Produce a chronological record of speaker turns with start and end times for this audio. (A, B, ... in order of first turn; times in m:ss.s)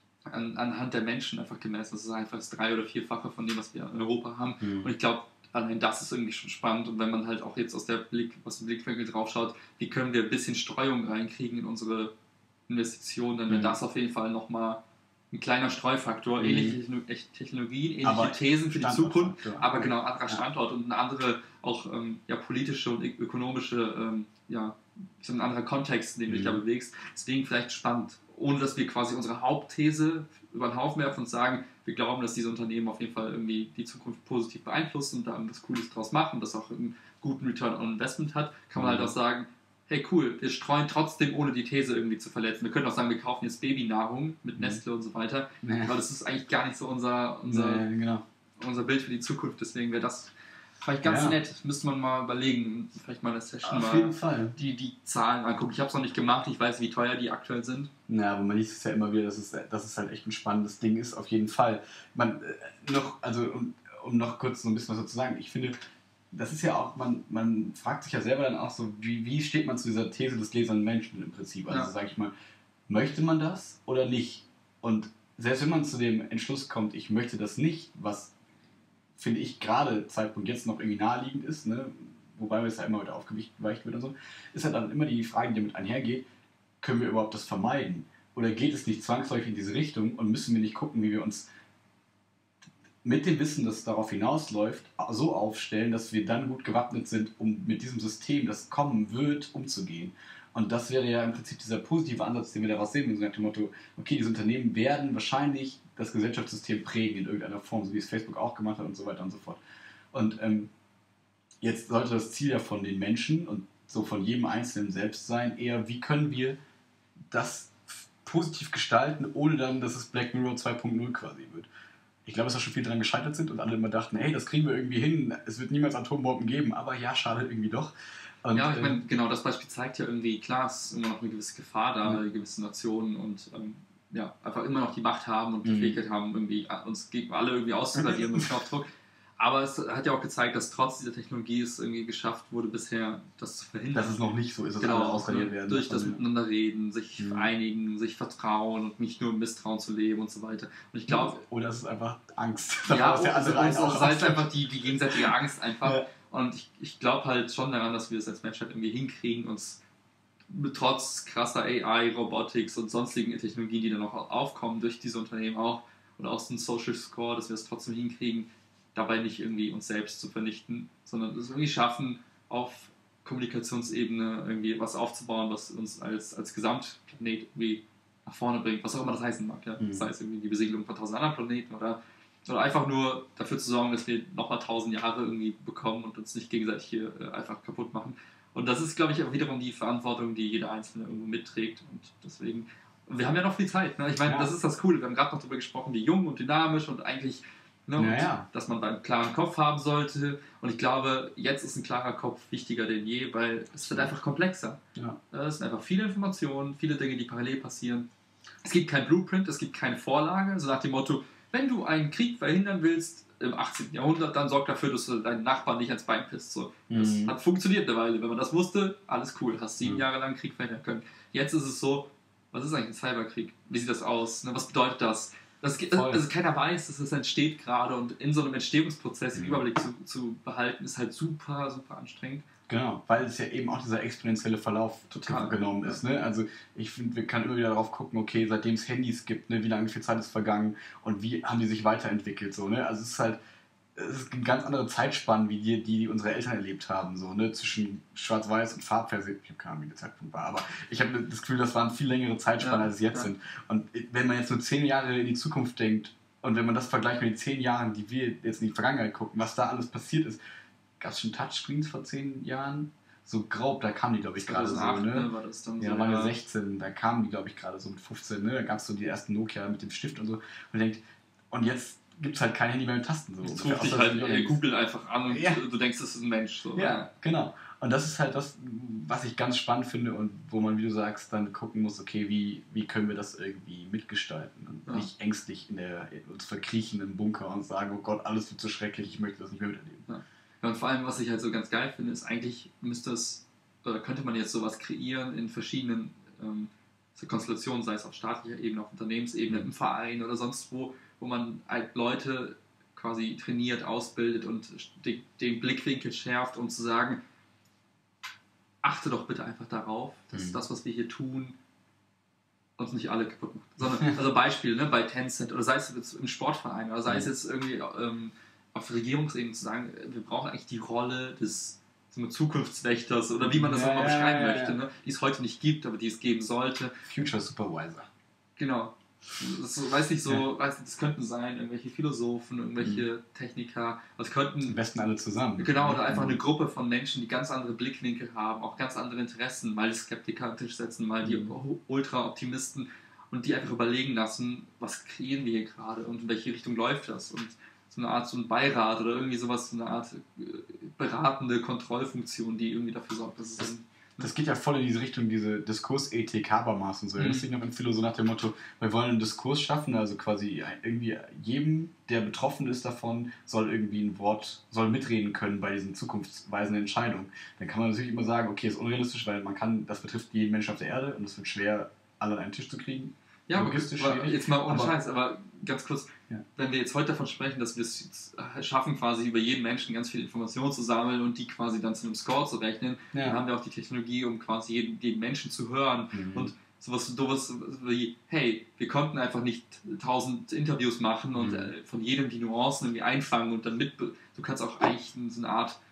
0:00.3-0:12.1 A
0:04.6-0:04.9 B
0:12.7-0:14.8 A
0:13.5-0:13.8 B
0:15.3-0:47.8 A
0:16.4-0:16.8 B
0:18.0-0:20.4 B
0:26.3-0:26.6 B
0:38.8-0:39.1 B
0:45.6-0:45.9 B
0:47.4-0:48.2 B
0:48.6-0:57.9 A
0:51.0-0:51.4 B
0:53.6-0:54.5 B
0:58.1-1:05.8 B
1:06.3-1:12.3 B
1:12.9-1:18.3 B
1:19.2-1:26.2 B
1:26.8-1:31.5 B
1:33.0-1:49.6 B
1:50.1-1:50.7 B
1:51.6-1:56.6 B
1:57.3-2:01.7 B
2:02.2-2:07.9 B
2:08.4-2:09.0 B
2:08.5-2:18.9 A
2:15.6-2:16.0 B
2:18.0-2:18.4 B
2:19.4-2:24.2 A
2:23.9-2:26.2 B
2:24.8-2:31.4 A
2:27.2-2:27.5 B
2:31.1-2:35.3 B
2:32.9-2:39.8 A
2:40.5-3:24.8 A
2:59.8-3:00.1 B
3:14.2-3:14.5 B
3:18.0-3:18.5 B
3:25.3-3:28.1 A
3:28.6-3:52.4 A
3:36.9-3:37.3 B
3:45.9-3:46.2 B
3:49.3-3:49.6 B
3:52.7-4:03.4 B
3:55.1-3:56.0 A
4:03.9-4:20.4 B
4:12.6-4:13.3 A
4:21.0-4:34.6 B
4:24.4-4:26.3 A
4:33.4-4:37.1 A
4:35.3-4:35.6 B
4:36.7-4:50.1 B
4:50.1-5:07.2 A
5:08.8-5:11.5 A
5:10.3-5:10.6 B
5:12.8-5:26.9 A
5:13.8-5:14.2 B
5:23.4-5:24.8 B
5:27.0-5:28.1 B
5:28.6-5:34.8 A
5:32.8-5:33.1 B
5:34.7-5:36.4 B
5:35.6-5:54.3 A
5:41.2-5:41.5 B
5:54.2-6:14.9 B
5:57.2-5:57.5 A
6:13.5-6:35.8 A
6:23.1-6:23.4 B
6:26.1-6:26.5 B
6:31.4-6:31.7 B